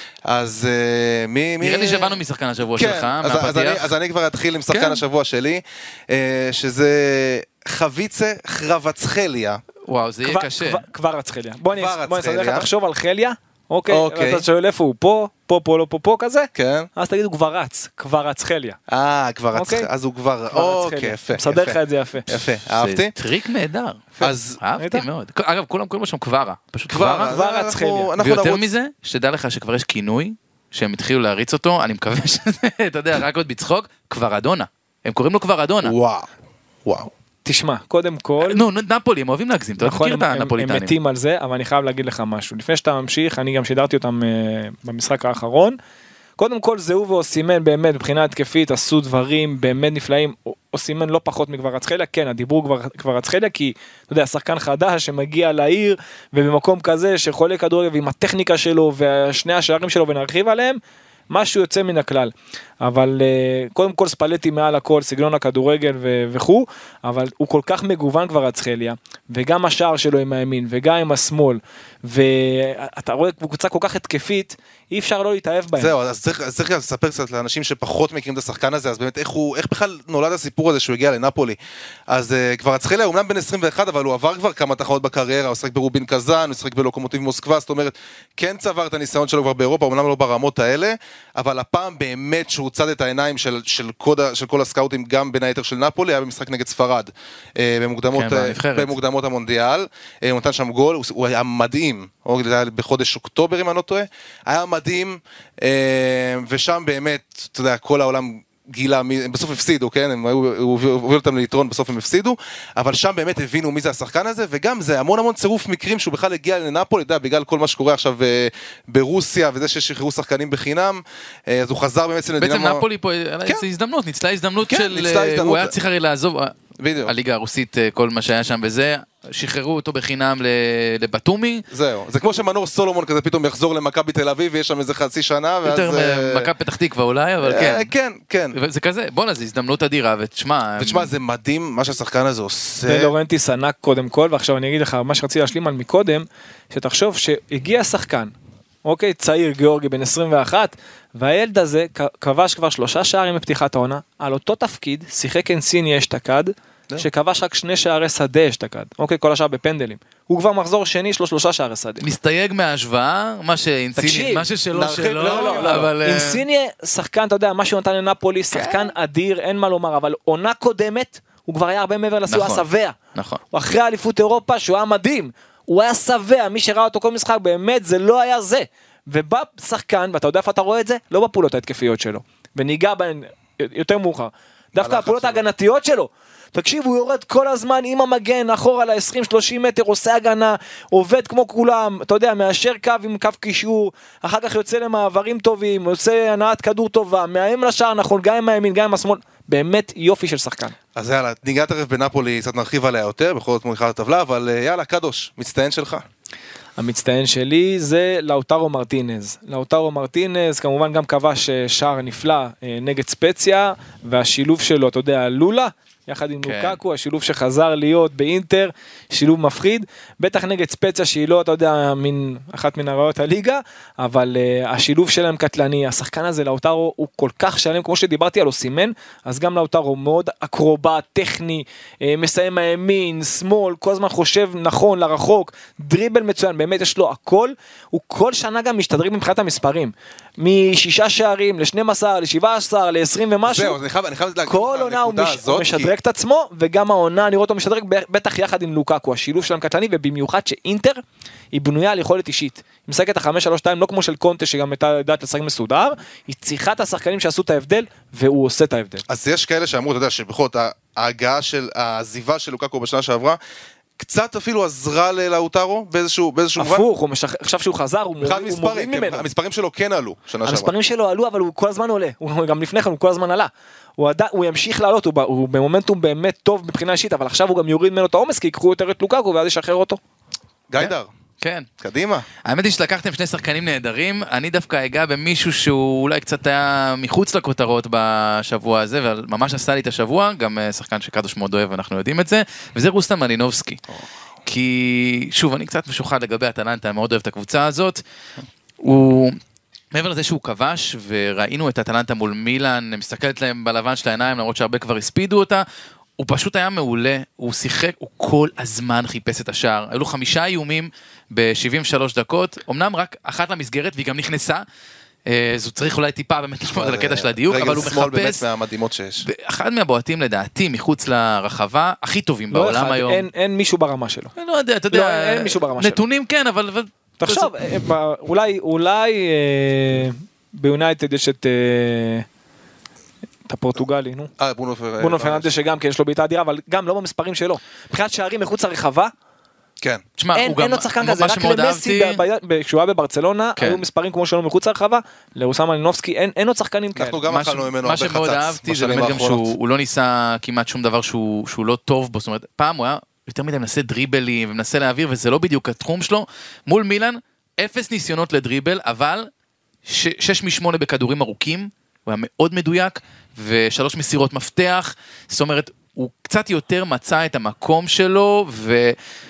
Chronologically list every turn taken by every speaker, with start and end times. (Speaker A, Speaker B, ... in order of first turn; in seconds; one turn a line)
Speaker A: 0.3-2.2
Speaker B: 1.6-3.9
Speaker A: 2.7-9.6
Speaker B: 4.7-5.0
Speaker B: 9.9-10.8
Speaker C: 10.2-18.8
Speaker A: 11.7-12.7
Speaker A: 13.9-14.4
Speaker A: 16.5-16.9
Speaker A: 18.9-23.1
Speaker C: 19.5-19.9
Speaker C: 20.5-22.3
Speaker B: 22.7-27.3
Speaker A: 24.2-24.6
Speaker C: 24.8-25.0
Speaker A: 26.9-28.6
Speaker C: 27.2-28.1
Speaker B: 28.2-35.9
Speaker A: 35.8-36.3
Speaker A: 36.8-37.1
Speaker C: 37.4-38.6
Speaker B: 38.4-40.9
Speaker C: 39.8-45.8
Speaker C: 46.4-75.9
Speaker A: 75.8-81.6
Speaker A: 82.1-122.8
Speaker B: 98.1-98.9
Speaker B: 122.4-131.6
Speaker A: 124.7-125.7
Speaker A: 126.8-127.1
Speaker A: 131.7-136.5
Speaker B: 135.6-137.9
Speaker A: 137.4-138.6
Speaker B: 138.5-141.1
Speaker A: 140.8-143.1
Speaker C: 142.8-148.3
Speaker C: 148.8-162.0
Speaker B: 162.0-166.4
Speaker C: 163.9-172.9
Speaker A: 164.7-165.9
Speaker B: 168.5-168.9
Speaker B: 172.3-173.4
Speaker C: 173.5-200.8
Speaker A: 184.7-185.4
Speaker A: 200.9-206.0
Speaker C: 206.8-243.8
Speaker B: 216.4-216.8
Speaker A: 243.4-245.9
Speaker C: 244.4-251.0
Speaker C: 251.5-259.0
Speaker A: 259.1-263.4
Speaker A: 264.0-266.9
Speaker C: 266.6-269.3
Speaker A: 268.2-270.7
Speaker C: 270.4-280.0
Speaker A: 280.7-281.1
Speaker B: 280.8-281.7
Speaker A: 281.8-282.2
Speaker B: 282.4-293.8
Speaker B: 294.4-298.0
Speaker B: 298.8-299.4
Speaker B: 299.9-305.6
Speaker B: 306.2-314.6
Speaker B: 315.2-318.4
Speaker A: 316.7-319.3
Speaker B: 319.2-323.2
Speaker C: 322.5-324.3
Speaker B: 324.4-327.5
Speaker C: 324.9-326.0
Speaker C: 327.2-332.2
Speaker C: 333.5-334.3
Speaker A: 334.4-335.5
Speaker C: 335.0-339.1
Speaker B: 340.2-342.2
Speaker C: 340.3-347.2
Speaker B: 343.6-343.8
Speaker A: 346.9-349.5
Speaker B: 347.3-359.3
Speaker B: 359.9-368.9